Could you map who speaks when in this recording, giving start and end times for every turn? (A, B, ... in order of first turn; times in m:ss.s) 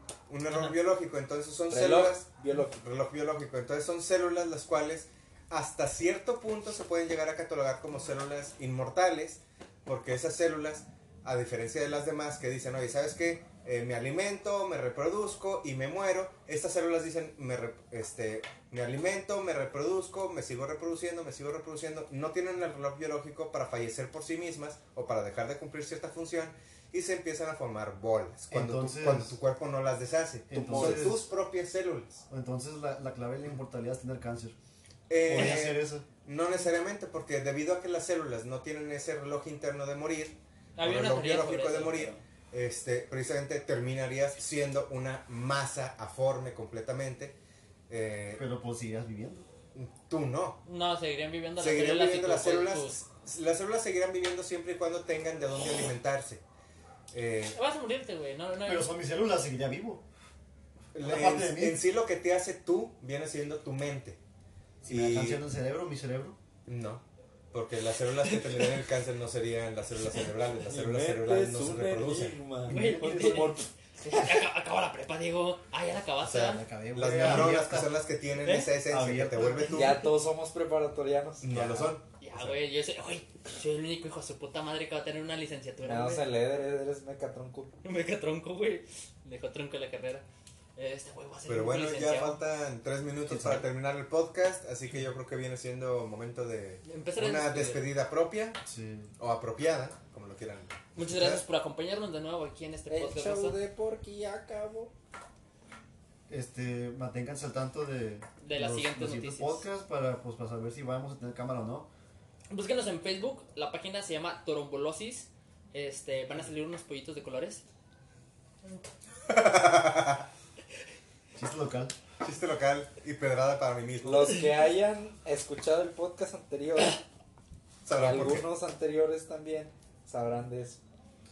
0:00.3-0:32.2 A
0:00.5-0:00.7 B
0:01.7-0:02.7 C
0:28.5-0:29.4 D
0:30.5-0:31.2 D
0:30.6-0:31.2 C
0:32.3-0:34.6 D
0:35.1-0:47.4 A
0:35.2-0:36.1 D
0:40.8-0:42.2 B
0:47.9-0:48.4 A
0:48.4-0:49.5 D
0:49.7-0:50.6 A
0:50.6-0:53.0 B
0:51.6-0:56.4 A
0:57.1-0:57.6 A
0:57.5-0:58.9 B
0:58.6-1:00.0 D
1:00.9-1:04.2 A
1:01.0-1:01.8 D
1:04.8-1:06.4 D
1:04.8-1:05.4 A
1:06.7-1:12.4 A
1:10.7-1:13.7 C
1:12.6-1:13.6 D
1:12.7-1:16.6 B
1:16.2-1:20.0 A
1:16.4-1:18.0 D
1:18.4-1:18.7 B
1:18.9-1:20.0 D
1:19.7-1:21.8 C
1:21.4-1:22.6 A
1:21.6-1:21.9 D
1:22.2-1:26.3 B
1:25.8-1:27.7 C
1:27.8-1:30.2 B
1:30.8-1:32.4 B
1:31.5-1:38.6 A
1:33.2-1:33.7 D
1:36.8-1:37.9 B
1:38.7-1:39.1 D
1:39.2-1:41.4 A
1:41.0-1:43.6 B
1:42.9-1:44.9 C
1:46.3-1:51.9 D
1:48.4-1:49.6 B
1:52.5-1:57.6 B
1:59.3-2:00.3 A
2:01.4-2:01.9 D
2:02.2-2:04.5 A
2:04.0-2:07.0 C
2:07.8-2:08.4 A
2:07.9-2:10.8 C
2:08.1-2:08.4 D